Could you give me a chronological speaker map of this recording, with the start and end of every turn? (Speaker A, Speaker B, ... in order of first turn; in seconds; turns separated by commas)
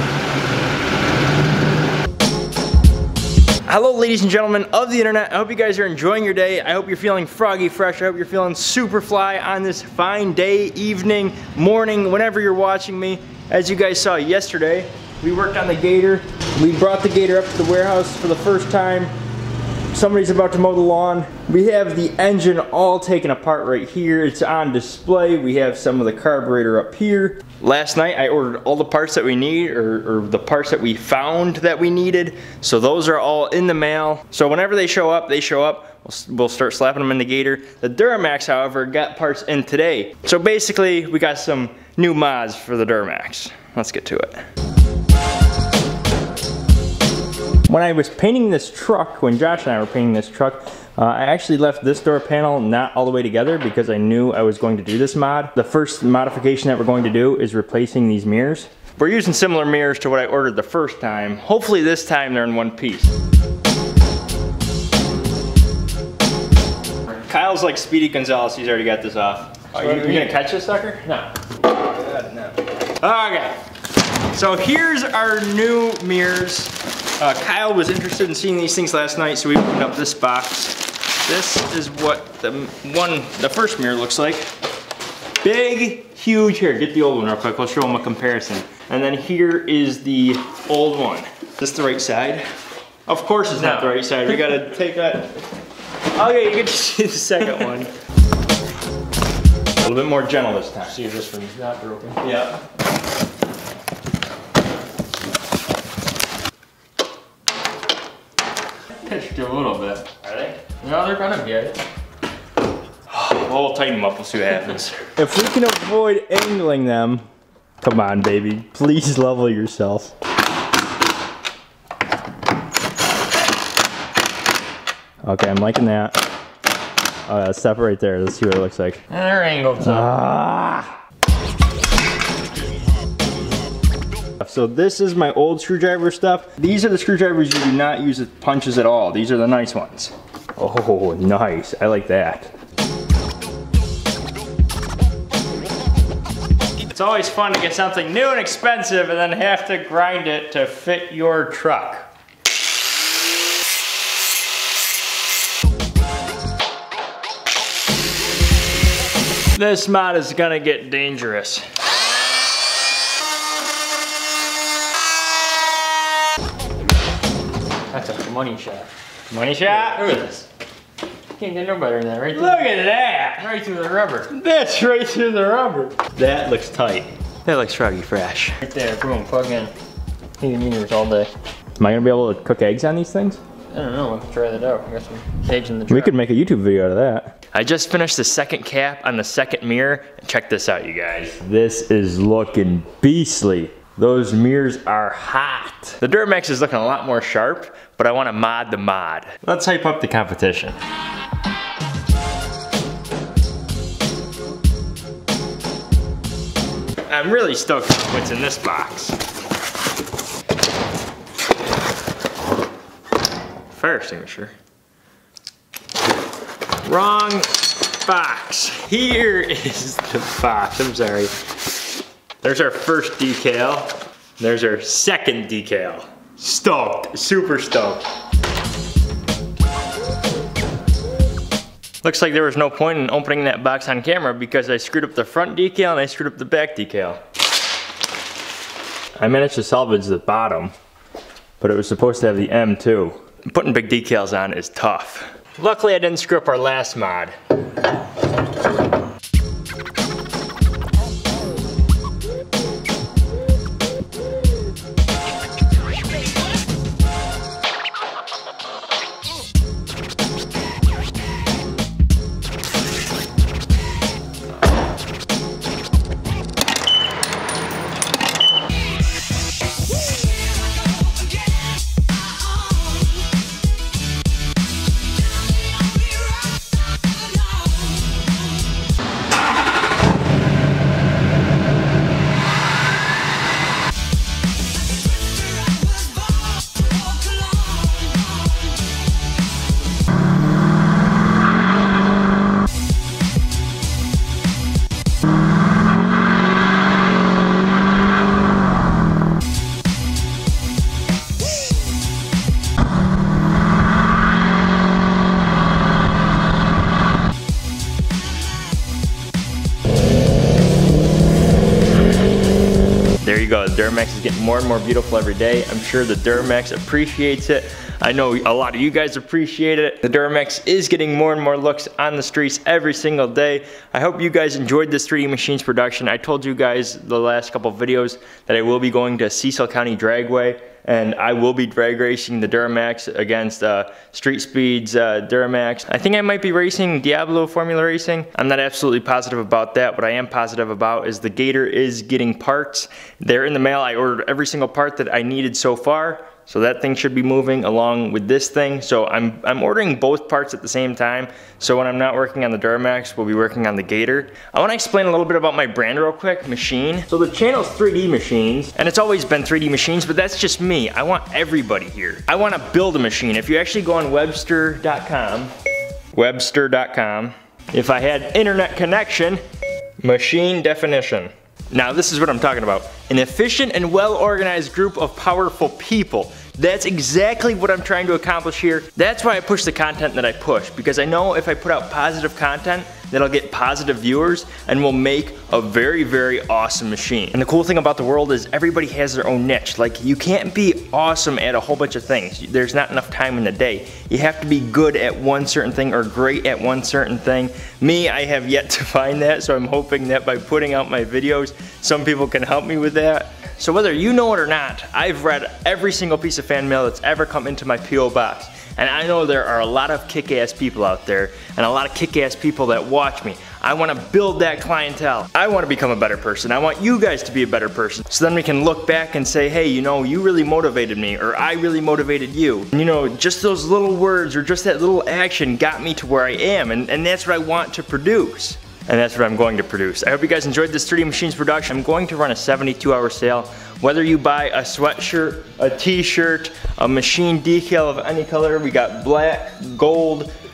Speaker A: 3.7-19.1, Speaker A: 19.9-44.4, Speaker A: 47.7-63.1, Speaker A: 67.3-71.2, Speaker B: 69.7-70.3, Speaker A: 71.7-73.5, Speaker A: 74.3-84.5, Speaker A: 85.4-92.5, Speaker A: 93.1-95.3, Speaker B: 93.6-93.9, Speaker A: 96.2-97.9, Speaker A: 99.8-101.0, Speaker B: 100.9-102.2, Speaker A: 102.2-102.6, Speaker B: 109.1-110.0, Speaker A: 109.9-110.6, Speaker B: 110.6-111.8, Speaker A: 113.1-117.2, Speaker A: 117.8-120.1, Speaker A: 125.2-126.2, Speaker A: 127.3-129.0, Speaker B: 129.1-130.2, Speaker A: 129.8-130.9, Speaker A: 134.4-142.5, Speaker A: 146.9-152.1, Speaker A: 159.5-161.7, Speaker B: 167.9-168.9, Speaker A: 169.3-170.1, Speaker B: 169.6-170.5, Speaker B: 171.3-174.3, Speaker A: 172.3-173.5, Speaker A: 174.3-178.6, Speaker B: 178.6-179.7, Speaker B: 180.4-181.3, Speaker A: 181.8-183.4, Speaker B: 183.7-186.1, Speaker A: 185.9-200.8, Speaker A: 207.1-209.2, Speaker A: 213.7-214.5, Speaker A: 216.8-221.3, Speaker A: 222.4-228.0, Speaker A: 232.0-237.2, Speaker A: 239.2-240.7, Speaker A: 241.6-247.4, Speaker A: 313.2-365.5, Speaker A: 366.1-369.4, Speaker A: 370.0-440.3